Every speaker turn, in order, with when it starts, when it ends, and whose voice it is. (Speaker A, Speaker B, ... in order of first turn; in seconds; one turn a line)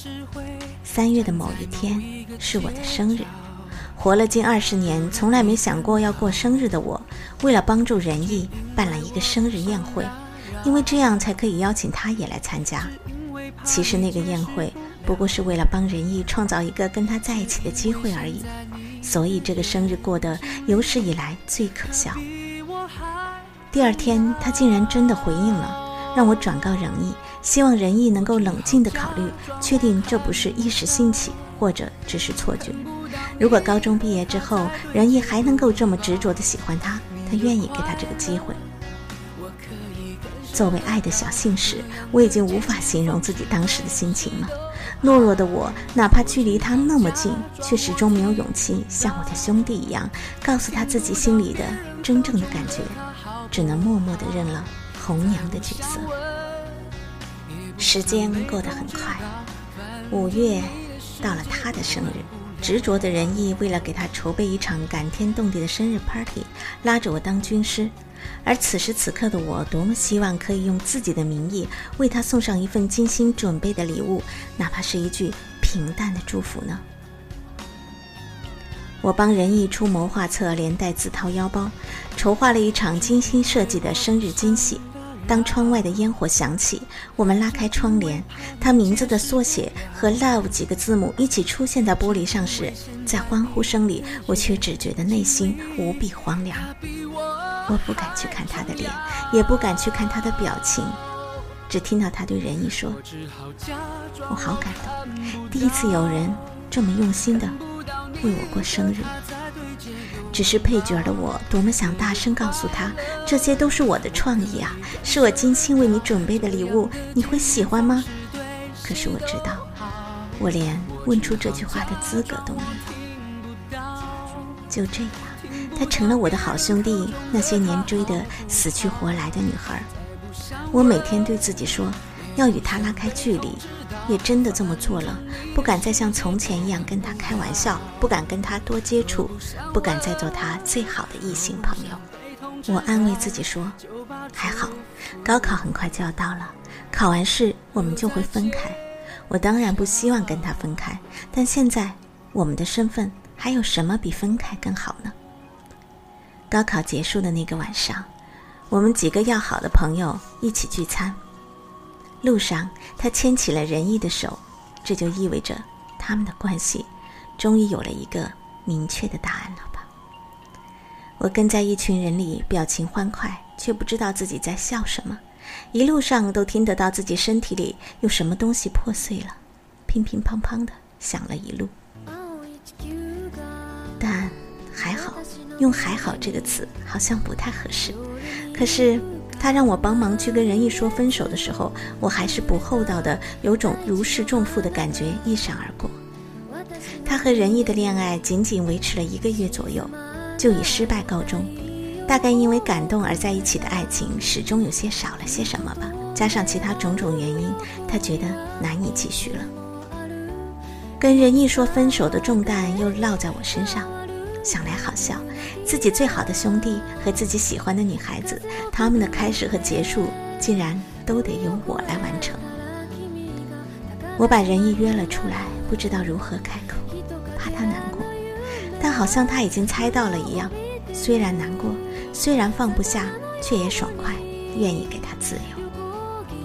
Speaker A: 0.8-3.4
Speaker A: 4.0-12.9
Speaker A: 13.6-18.5
Speaker A: 19.0-22.2
Speaker A: 23.7-38.6
Speaker A: 40.5-56.1
Speaker A: 57.8-59.3
Speaker A: 60.1-67.9
Speaker A: 68.4-76.8
Speaker A: 79.0-96.7
Speaker A: 97.7-101.0
Speaker A: 101.7-103.0
Speaker A: 104.3-107.6
Speaker A: 108.2-109.2
Speaker A: 110.3-118.1
Speaker A: 118.8-119.7
Speaker A: 120.4-123.0
Speaker A: 124.7-129.9
Speaker A: 130.7-142.0
Speaker A: 142.7-143.8
Speaker A: 144.3-155.1
Speaker A: 156.5-158.1
Speaker A: 158.7-161.2
Speaker A: 162.2-169.9
Speaker A: 171.2-175.2
Speaker A: 175.7-181.7
Speaker A: 184.0-188.0
Speaker A: 188.5-196.0
Speaker A: 197.0-209.5
Speaker A: 211.0-213.9
Speaker A: 214.4-222.4
Speaker A: 224.2-228.1
Speaker A: 228.8-235.6